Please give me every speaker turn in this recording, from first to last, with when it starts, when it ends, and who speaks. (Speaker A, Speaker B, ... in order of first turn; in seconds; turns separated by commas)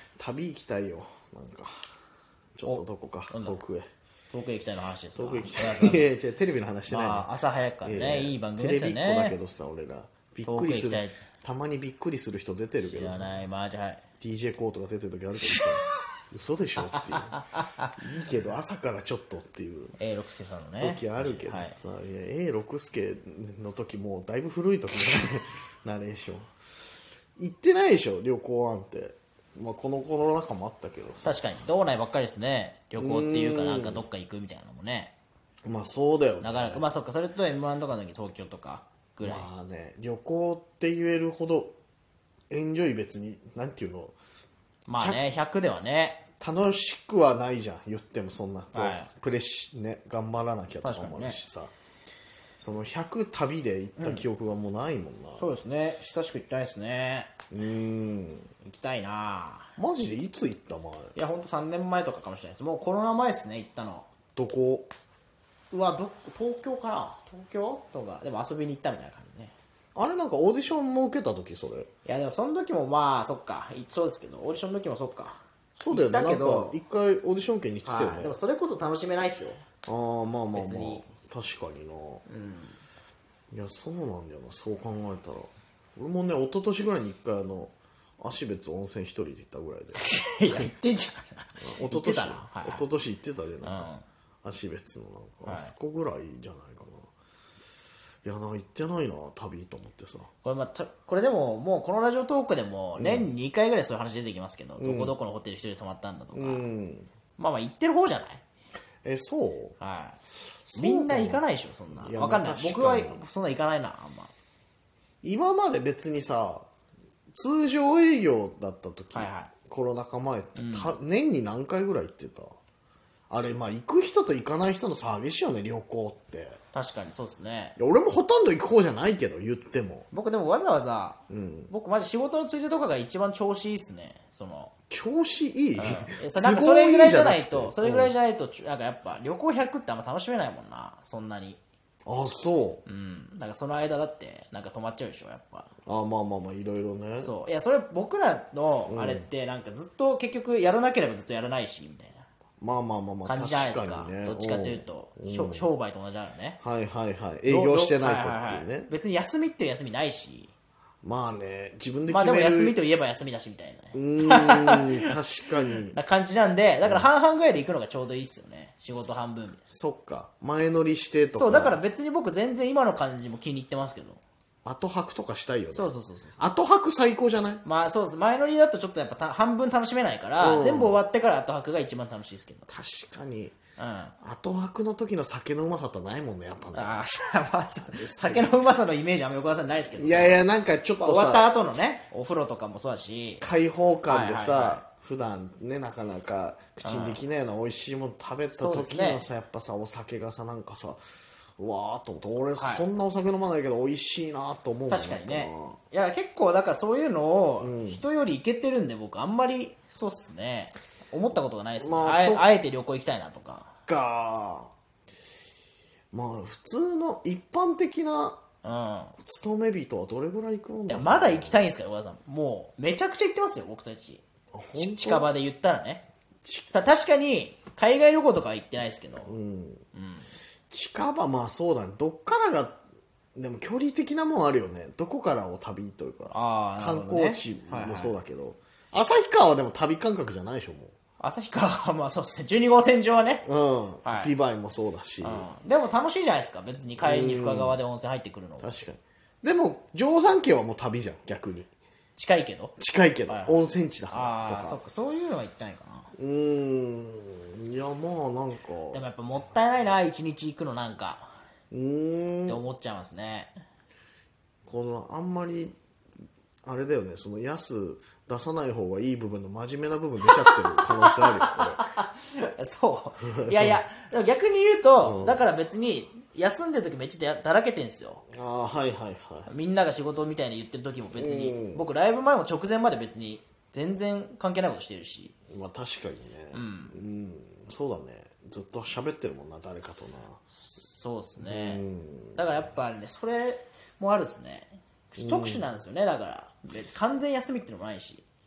Speaker A: 0.2-1.8, Speaker A: 2.6-3.9, Speaker B: 2.6-3.6, Speaker B: 4.3-6.1, Speaker A: 5.1-7.3, Speaker B: 6.9-9.3, Speaker A: 7.8-13.4, Speaker B: 10.4-11.2, Speaker B: 12.8-14.0, Speaker A: 14.2-17.4, Speaker B: 16.8-17.9, Speaker A: 17.9-19.9, Speaker B: 20.0-21.8, Speaker A: 20.8-26.5, Speaker A: 27.4-31.4, Speaker B: 31.2-35.1, Speaker A: 33.0-34.0, Speaker A: 35.6-36.9, Speaker B: 36.4-39.5, Speaker A: 39.2-41.7, Speaker A: 42.5-44.1, Speaker B: 44.9-46.2, Speaker A: 45.0-45.3, Speaker A: 46.4-51.7, Speaker B: 48.7-49.1, Speaker B: 50.8-51.4, Speaker A: 52.6-55.5, Speaker B: 54.0-54.2, Speaker B: 55.4-57.3, Speaker A: 57.5-58.5, Speaker B: 58.6-59.7, Speaker A: 59.8-61.1, Speaker B: 61.1-64.1, Speaker A: 64.3-64.9, Speaker B: 65.7-69.5, Speaker A: 69.9-71.9, Speaker B: 72.0-76.8, Speaker A: 75.8-78.4, Speaker B: 77.8-79.6, Speaker A: 79.8-82.2, Speaker B: 80.5-81.0, Speaker B: 82.3-82.8, Speaker A: 83.5-90.7, Speaker B: 90.0-92.8, Speaker A: 91.6-93.9, Speaker B: 93.6-94.0, Speaker A: 94.4-97.1, Speaker B: 95.4-95.7, Speaker A: 98.2-100.3, Speaker B: 100.4-106.6, Speaker A: 103.0-103.3, Speaker A: 104.8-105.1, Speaker A: 106.3-107.1, Speaker B: 107.4-108.4, Speaker A: 109.0-109.8, Speaker B: 109.8-110.2, Speaker A: 110.7-113.2, Speaker B: 110.7-114.3, Speaker A: 115.2-116.7, Speaker A: 117.3-122.5, Speaker B: 119.1-119.5, Speaker B: 120.5-120.9, Speaker A: 123.3-126.6, Speaker B: 126.7-127.8, Speaker A: 127.8-130.1, Speaker B: 130.1-134.7, Speaker A: 131.3-131.7, Speaker A: 134.9-138.1, Speaker B: 135.8-141.6, Speaker A: 142.1-142.8, Speaker B: 142.8-145.7, Speaker A: 145.8-147.3, Speaker B: 147.2-152.2, Speaker A: 148.9-149.3, Speaker A: 152.6-155.7, Speaker B: 153.2-156.6, Speaker A: 156.6-158.9, Speaker B: 157.5-160.5, Speaker A: 161.0-162.8, Speaker B: 162.1-165.2, Speaker A: 163.9-166.0, Speaker B: 165.9-169.6, Speaker A: 169.7-171.8, Speaker B: 171.3-174.2, Speaker A: 174.6-177.6, Speaker B: 175.7-176.4, Speaker B: 177.6-182.7, Speaker A: 180.4-181.0, Speaker A: 182.7-183.6, Speaker B: 183.8-184.2, Speaker A: 184.2-187.0, Speaker B: 186.7-190.4, Speaker A: 187.9-188.5, Speaker A: 189.9-191.5, Speaker B: 191.0-193.4, Speaker A: 193.4-201.0, Speaker B: 194.1-194.8, Speaker B: 196.8-197.2, Speaker B: 198.5-199.2, Speaker A: 201.6-205.8, Speaker B: 202.6-202.8, Speaker B: 204.9-213.7, Speaker A: 207.6-208.0, Speaker A: 211.8-212.4, Speaker A: 213.9-214.7, Speaker A: 216.1-218.4, Speaker B: 218.6-219.1, Speaker A: 219.2-221.6, Speaker B: 220.9-224.2, Speaker A: 224.5-225.3, Speaker B: 224.7-226.0, Speaker A: 226.4-226.7, Speaker B: 226.7-229.3, Speaker A: 229.2-229.8, Speaker B: 229.9-230.3, Speaker A: 230.7-232.8, Speaker A: 233.3-240.9, Speaker B: 236.3-238.1, Speaker B: 241.2-243.4, Speaker A: 243.4-245.5, Speaker B: 244.0-244.3, Speaker B: 245.2-248.7, Speaker A: 247.0-247.8, Speaker A: 248.6-251.7, Speaker B: 252.2-252.7, Speaker A: 252.8-254.8, Speaker B: 253.3-253.6, Speaker B: 254.1-256.1, Speaker A: 256.1-259.0, Speaker B: 258.9-261.3, Speaker A: 261.7-262.6, Speaker B: 262.5-263.5, Speaker A: 264.6-265.8, Speaker A: 266.6-271.8, Speaker B: 270.4-278.2, Speaker A: 273.3-273.8, Speaker A: 275.0-275.5, Speaker A: 278.3-279.5, Speaker B: 279.5-285.3, Speaker A: 281.1-281.8, Speaker A: 285.5-290.4, Speaker B: 286.5-286.9, Speaker B: 290.8-291.8, Speaker A: 291.4-292.5, Speaker B: 292.3-298.2, Speaker A: 295.2-295.6